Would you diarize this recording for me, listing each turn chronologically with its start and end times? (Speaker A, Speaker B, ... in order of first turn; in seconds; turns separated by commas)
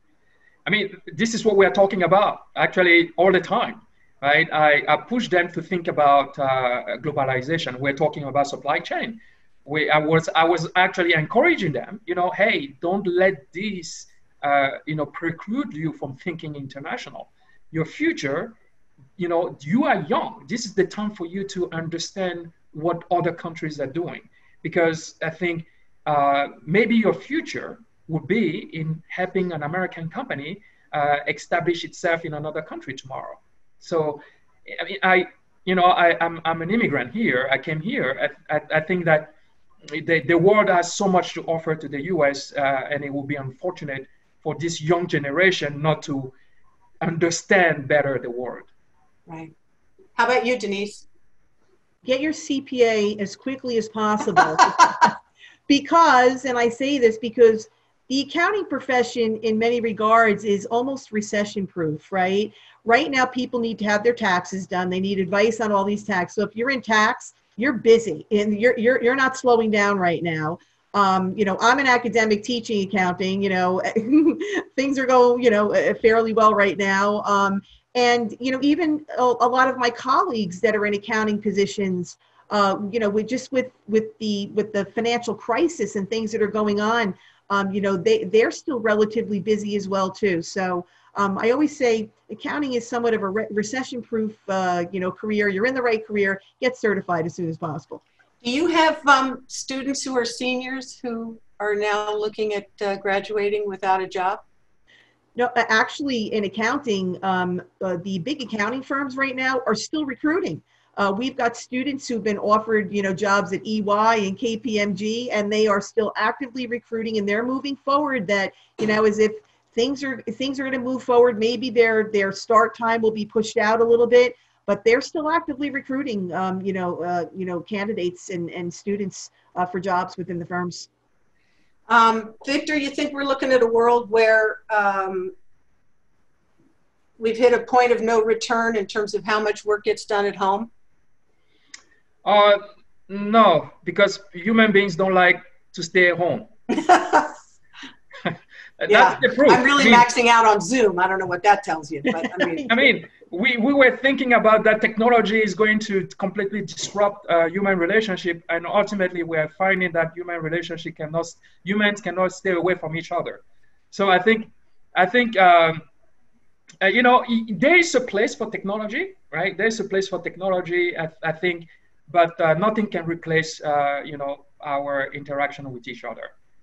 Speaker A: 0.7-18.6, Speaker A: 19.2-39.3, Speaker A: 39.9-46.4, Speaker A: 47.0-48.7, Speaker B: 49.3-49.5, Speaker B: 50.2-51.0, Speaker C: 52.0-55.1, Speaker C: 55.7-98.0, Speaker B: 98.4-104.4, Speaker C: 105.4-130.9, Speaker B: 131.9-135.3, Speaker B: 137.2-140.7, Speaker A: 142.2-146.5, Speaker B: 146.7-147.3, Speaker A: 148.2-150.1, Speaker B: 148.9-152.7, Speaker A: 152.7-165.8, Speaker A: 166.8-176.3